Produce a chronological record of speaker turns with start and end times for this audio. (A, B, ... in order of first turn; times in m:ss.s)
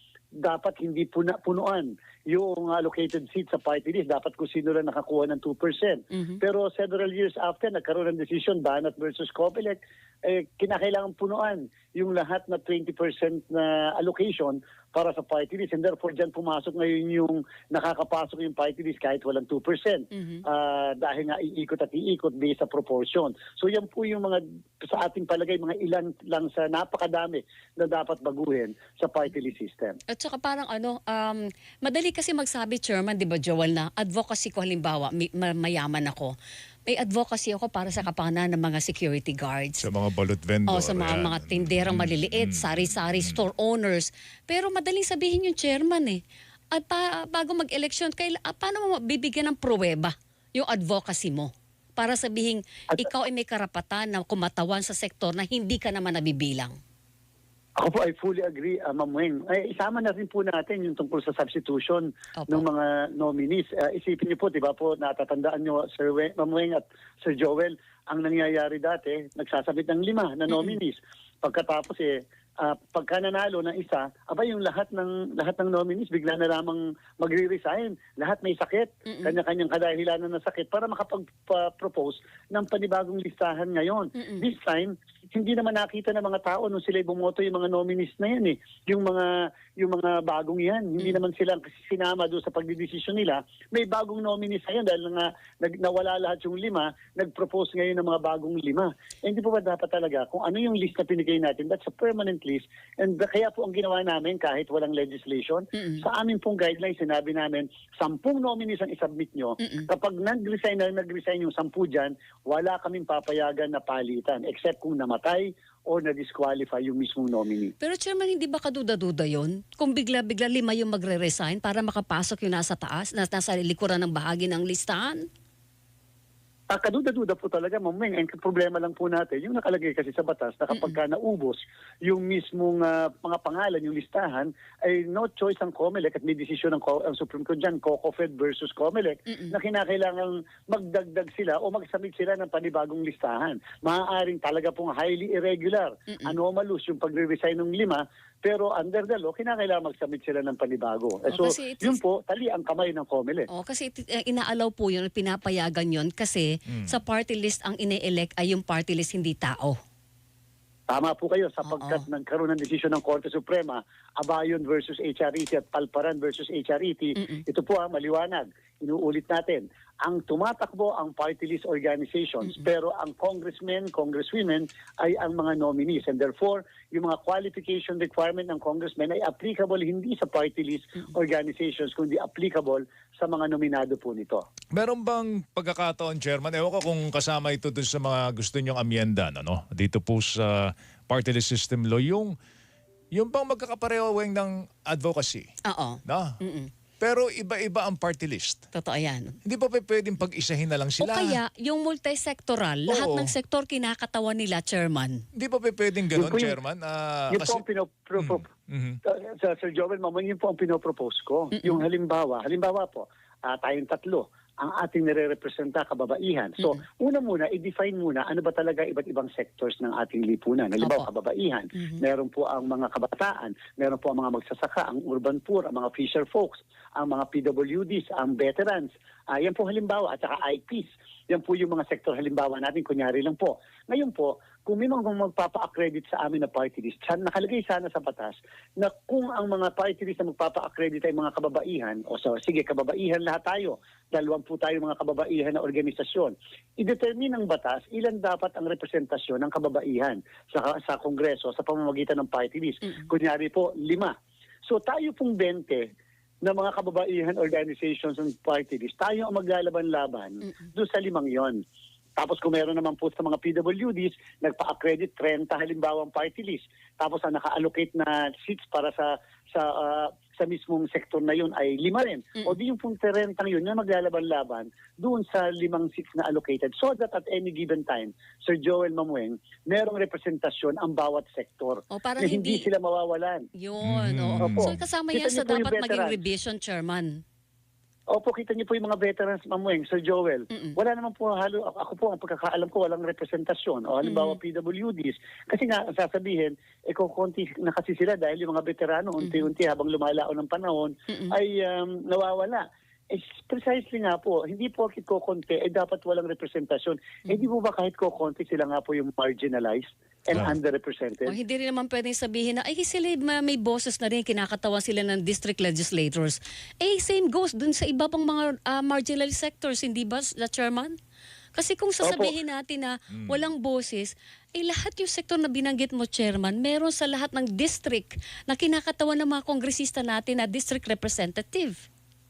0:00.4-0:30.0 A
0:06.1-0:06.4 B
0:20.1-0:20.4 B
0:30.1-0:36.3 B
0:36.8-0:39.8 B
0:39.8-0:43.4 C
0:40.7-0:56.8 B
0:57.8-1:57.7 A
1:19.0-1:19.4 B
1:24.2-1:24.4 B
1:45.7-1:46.0 B
1:49.6-1:49.9 B
1:57.8-2:05.3 B
2:06.7-2:33.5 A
2:10.7-2:11.0 B
2:19.3-2:19.5 B
2:26.1-2:26.4 B
2:31.3-2:32.0 B
2:33.5-2:39.8 B
2:40.9-3:04.4 A
2:41.6-2:42.0 B
3:04.7-3:12.3 C
3:13.1-3:15.5 C
3:15.6-3:16.7 B
3:16.0-3:16.3 C
3:17.0-3:18.6 C
3:18.7-3:19.4 B
3:19.4-3:21.4 C
3:21.0-3:25.2 B
3:22.9-3:23.3 C
3:25.3-3:27.6 C
3:26.1-3:26.6 A
3:27.3-3:28.5 A
3:28.2-3:29.0 C
3:29.0-4:14.1 A
3:31.5-3:31.8 B
3:40.8-3:41.1 B
4:14.6-4:15.9 A
4:16.4-4:21.6 A
4:22.2-4:43.5 A
4:41.9-4:42.7 B
4:43.5-4:47.2 B
4:43.8-4:44.8 C
4:44.4-4:46.2 A
4:48.1-5:11.3 A
4:50.5-4:50.8 B
4:54.0-4:54.4 B
5:01.1-5:01.4 B
5:11.2-5:21.0 B
5:21.5-5:31.8 B
5:22.0-5:22.3 A
5:23.1-5:23.5 C